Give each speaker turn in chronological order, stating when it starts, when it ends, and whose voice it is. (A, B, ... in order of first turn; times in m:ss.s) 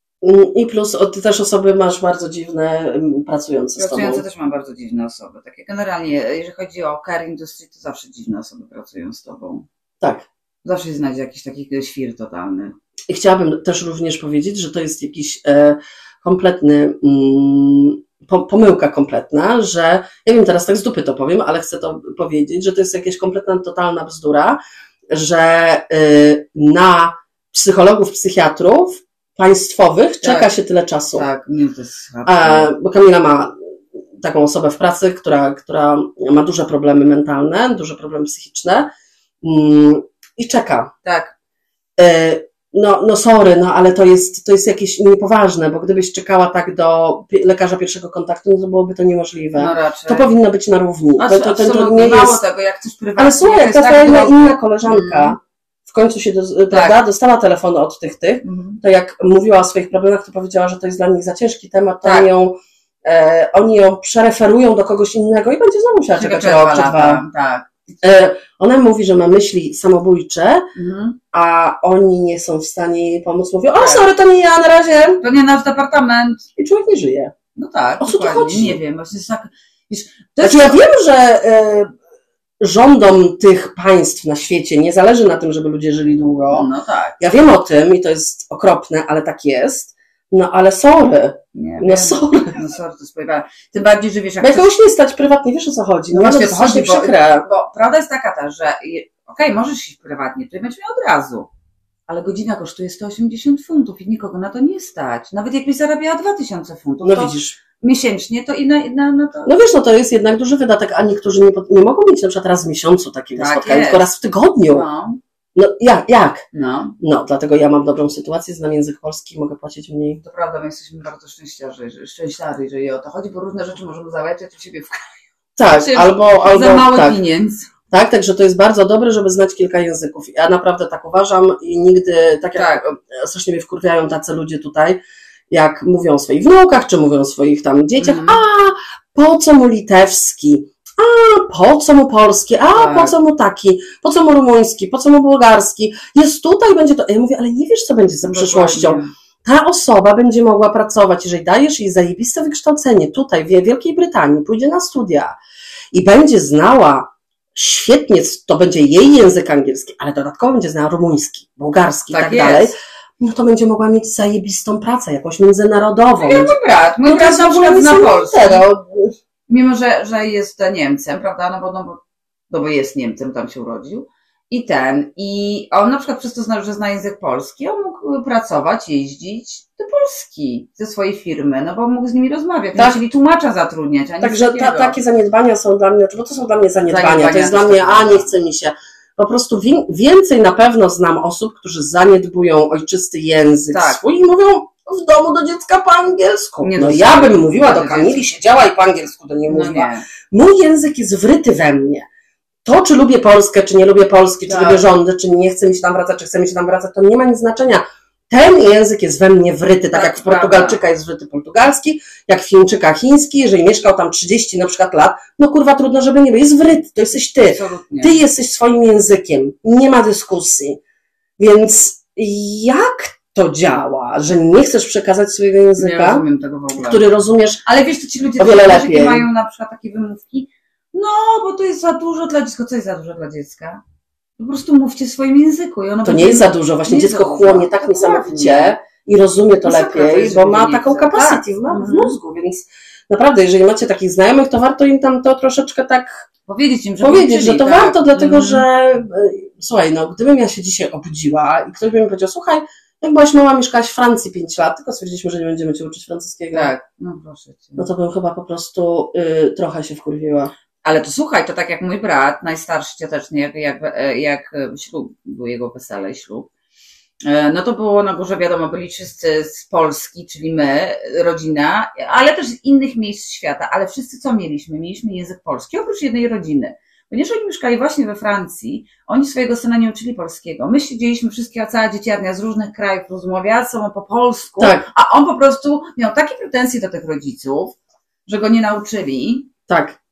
0:00.2-0:04.2 A
0:03.8-0:09.7 B
0:10.0-0:10.3 A
0:10.6-0:12.8 B
0:13.1-0:24.6 A
0:25.1-0:31.3 A
0:30.2-0:30.5 B
0:31.1-0:32.7 B
0:32.3-0:33.5 A
0:34.2-0:38.9 A
0:39.4-0:40.9 A
0:41.0-0:41.3 B
0:42.0-0:52.4 A
0:49.6-0:50.3 B
0:51.2-0:55.4 B
0:53.2-1:07.2 A
0:56.7-0:57.0 B
0:58.4-0:58.8 B
1:02.0-1:02.3 B
1:06.2-1:07.7 B
1:08.0-1:10.7 A
1:10.8-1:11.2 B
1:11.3-1:15.2 A
1:13.8-1:14.1 B
1:15.2-1:16.5 B
1:16.6-1:17.3 A
1:17.6-1:20.8 B
1:18.0-1:18.8 A
1:20.4-1:21.9 A
1:22.6-1:26.7 A
1:26.5-1:27.2 B
1:27.2-1:32.6 A
1:31.6-1:34.7 B
1:34.4-1:37.5 A
1:36.1-1:41.5 B
1:42.1-1:49.5 B
1:47.0-1:47.6 A
1:49.5-1:54.9 A
1:53.4-1:54.1 B
1:54.7-1:55.2 B
1:55.6-1:56.4 A
1:56.5-1:57.0 B
1:57.0-2:00.2 A
2:00.2-2:07.7 B
2:05.6-2:07.2 A
2:07.9-2:35.4 A
2:12.6-2:12.8 B
2:18.0-2:18.4 B
2:22.8-2:23.2 B
2:28.2-2:29.1 B
2:35.9-2:49.1 A
2:42.1-2:42.8 B
2:46.2-2:48.7 B
2:49.5-3:05.0 B
3:02.8-3:03.0 A
3:04.2-3:22.1 A
3:06.9-3:08.3 B
3:13.7-3:14.0 B
3:16.6-3:18.4 B
3:19.5-3:20.1 B
3:22.6-3:40.8 A
3:24.5-3:24.9 B
3:29.9-3:30.8 B
3:37.4-3:38.2 B
3:41.4-3:47.6 A
3:45.8-3:47.1 B
3:47.7-3:53.8 B
3:48.4-3:49.3 A
3:54.4-3:58.8 B
3:56.0-4:06.3 A
3:59.6-4:02.2 B
4:06.5-4:08.7 B
4:07.0-4:16.7 A
4:16.5-4:17.9 B
4:17.8-4:20.5 A
4:20.8-4:26.5 B
4:27.2-4:49.5 B
4:44.6-4:44.9 A
4:49.7-4:50.0 A